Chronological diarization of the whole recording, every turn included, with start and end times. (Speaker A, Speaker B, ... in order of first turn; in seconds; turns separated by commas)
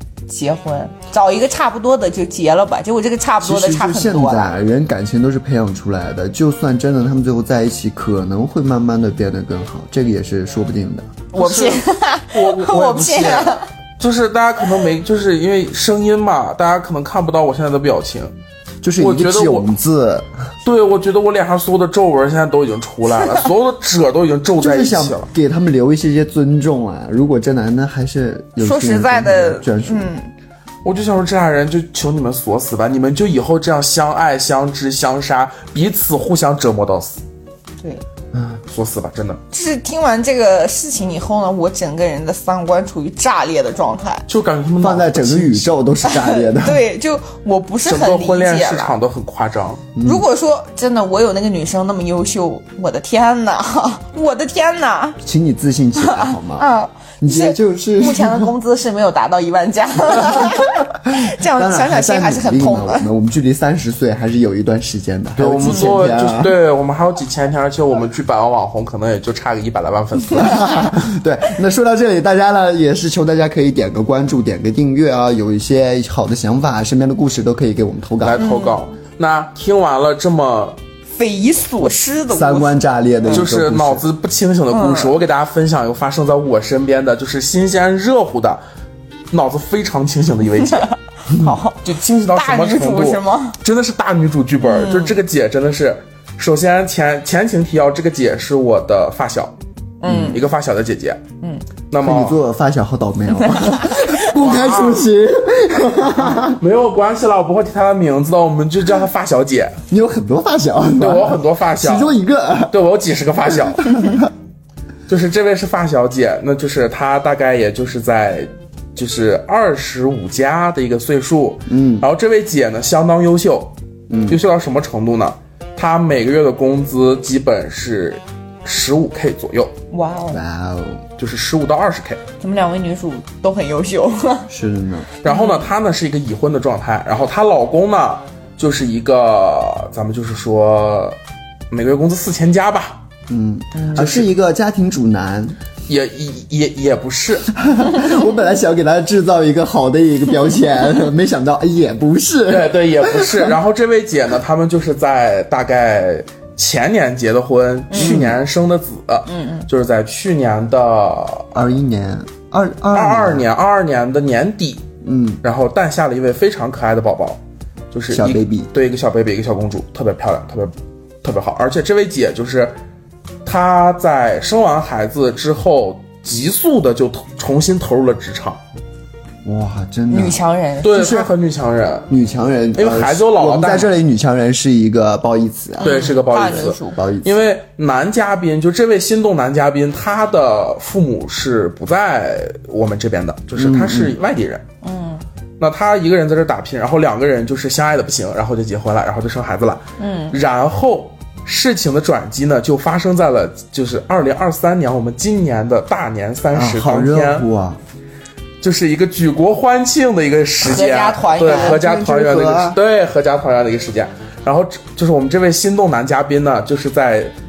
Speaker A: 0.3-4.5, Speaker B: 3.4-11.2, Speaker A: 11.3-13.6, Speaker C: 11.3-18.3, Speaker B: 18.8-20.5, Speaker C: 19.0-19.7, Speaker C: 20.6-25.3, Speaker B: 24.6-30.1, Speaker A: 28.6-30.3, Speaker C: 30.8-37.2, Speaker B: 38.3-38.6, Speaker C: 38.7-39.4, Speaker A: 39.5-44.2, Speaker C: 44.3-45.7, Speaker B: 44.8-46.8, Speaker A: 46.0-49.0, Speaker C: 47.8-49.8, Speaker B: 49.9-50.2, Speaker A: 50.0-55.2, Speaker B: 55.2-56.7, Speaker A: 56.0-63.1, Speaker B: 57.2-58.5, Speaker B: 60.4-66.5, Speaker C: 65.4-70.9, Speaker A: 65.7-66.0, Speaker B: 70.3-78.4, Speaker C: 78.2-80.8, Speaker A: 78.4-78.8, Speaker A: 81.1-83.4, Speaker B: 82.3-84.0, Speaker C: 83.3-88.6, Speaker A: 84.7-85.1, Speaker C: 89.3-90.9, Speaker A: 90.6-93.6, Speaker B: 91.3-91.6, Speaker C: 91.8-99.5, Speaker A: 94.6-95.2, Speaker A: 100.0-100.4, Speaker B: 100.0-100.4, Speaker C: 100.2-101.2, Speaker C: 101.9-102.4, Speaker B: 102.0-106.6, Speaker A: 103.4-104.2, Speaker C: 104.3-105.1, Speaker C: 106.3-109.8, Speaker B: 109.9-112.8, Speaker C: 111.0-112.2, Speaker C: 112.7-113.9, Speaker B: 113.5-114.3, Speaker C: 115.1-123.7, Speaker B: 121.7-122.0, Speaker B: 124.1-124.4, Speaker C: 124.3-129.7, Speaker A: 129.9-130.4, Speaker B: 130.3-131.0, Speaker C: 131.2-132.2, Speaker A: 132.4-134.5, Speaker B: 134.5-135.1, Speaker C: 135.2-141.2, Speaker A: 135.2-135.7, Speaker C: 141.7-143.0, Speaker B: 143.3-145.6, Speaker A: 143.8-144.0, Speaker C: 143.9-144.3, Speaker C: 145.9-147.5, Speaker B: 147.5-153.6, Speaker C: 152.5-161.6, Speaker A: 157.9-158.2, Speaker B: 157.9-158.4, Speaker A: 159.2-159.7, Speaker B: 161.5-163.5, Speaker C: 162.9-164.8, Speaker B: 165.0-165.4, Speaker C: 165.4-167.4, Speaker C: 167.9-172.7, Speaker B: 168.1-168.7, Speaker C: 173.4-178.6, Speaker B: 179.4-180.4, Speaker A: 180.1-181.2, Speaker C: 180.8-182.1, Speaker B: 181.0-181.2, Speaker B: 182.1-187.4, Speaker C: 182.8-183.9, Speaker A: 185.8-187.0, Speaker C: 185.8-194.6, Speaker B: 193.6-194.2, Speaker A: 194.8-195.2, Speaker C: 195.6-207.4, Speaker A: 200.0-200.3, Speaker B: 206.5-207.8, Speaker C: 208.6-217.3, Speaker A: 210.6-211.8, Speaker B: 211.4-212.8